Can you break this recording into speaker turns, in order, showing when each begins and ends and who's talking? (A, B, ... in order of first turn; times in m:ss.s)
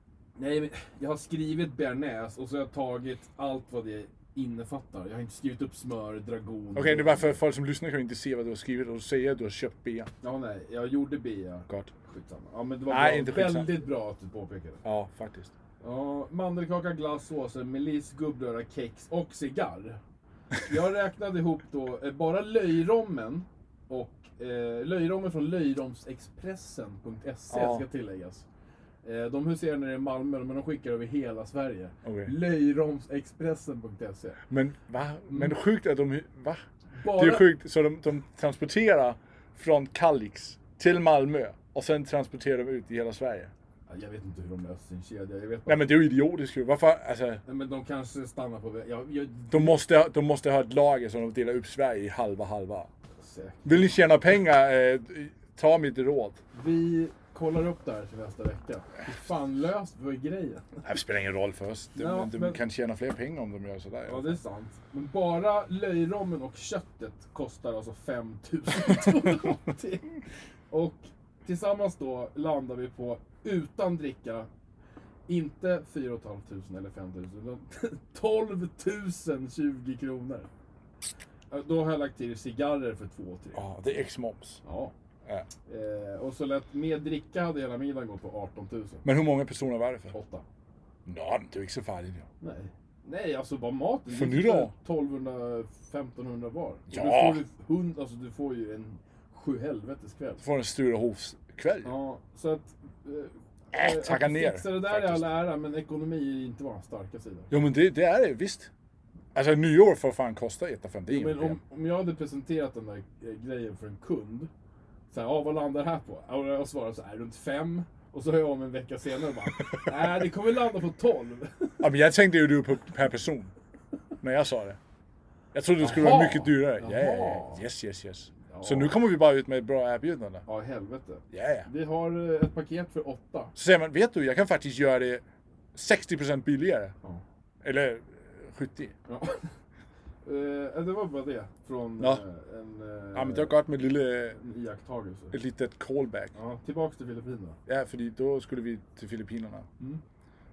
0:00.4-0:07.4 A
0:06.7-0:10.1 B
0:10.2-0:14.8 A
0:12.9-0:13.7 B
0:14.8-0:15.5 B
0:15.8-0:20.0 A
0:20.6-0:28.4 A
0:27.5-0:27.8 B
0:29.0-0:34.4 A
0:32.0-0:32.3 B
0:34.5-0:43.5 B
0:35.3-0:35.5 A
0:36.9-0:37.5 A
0:43.9-0:45.9 A
0:45.7-0:47.4 B
0:47.4-0:49.8 A
0:49.5-0:52.9 B
0:53.2-0:53.9 A
0:53.6-0:56.4 B
0:56.5-1:00.8 A
1:00.8-1:04.4 B
1:02.0-1:02.6 A
1:04.0-1:10.1 A
1:10.7-1:14.5 A
1:15.3-1:20.5 A
1:21.5-1:23.6 A
1:23.5-1:24.6 B
1:24.6-1:24.9 A
1:25.7-1:29.0 A
1:29.0-1:30.1 B
1:30.1-1:30.4 A
1:31.0-1:32.2 B
1:32.4-1:40.4 A
1:34.1-1:34.7 B
1:36.9-1:37.4 B
1:40.4-1:41.9 B
1:41.8-1:47.5 A
1:43.7-1:45.3 B
1:47.5-1:48.7 B
1:49.3-1:51.6 B
1:51.1-1:54.5 A
1:55.1-2:01.8 A
2:01.8-2:03.5 B
2:04.2-2:04.8 B
2:05.5-2:10.4 B
2:05.8-2:07.6 A
2:08.5-2:09.0 A
2:10.4-2:13.5 A
2:11.3-2:11.7 B
2:13.6-2:15.2 B
2:15.7-2:16.9 B
2:17.6-2:18.9 B
2:19.1-2:19.4 A
2:20.2-2:23.5 A
2:23.1-2:24.4 B
2:24.4-2:25.3 A
2:25.3-2:26.3 B
2:26.3-2:27.6 A
2:27.6-2:29.7 B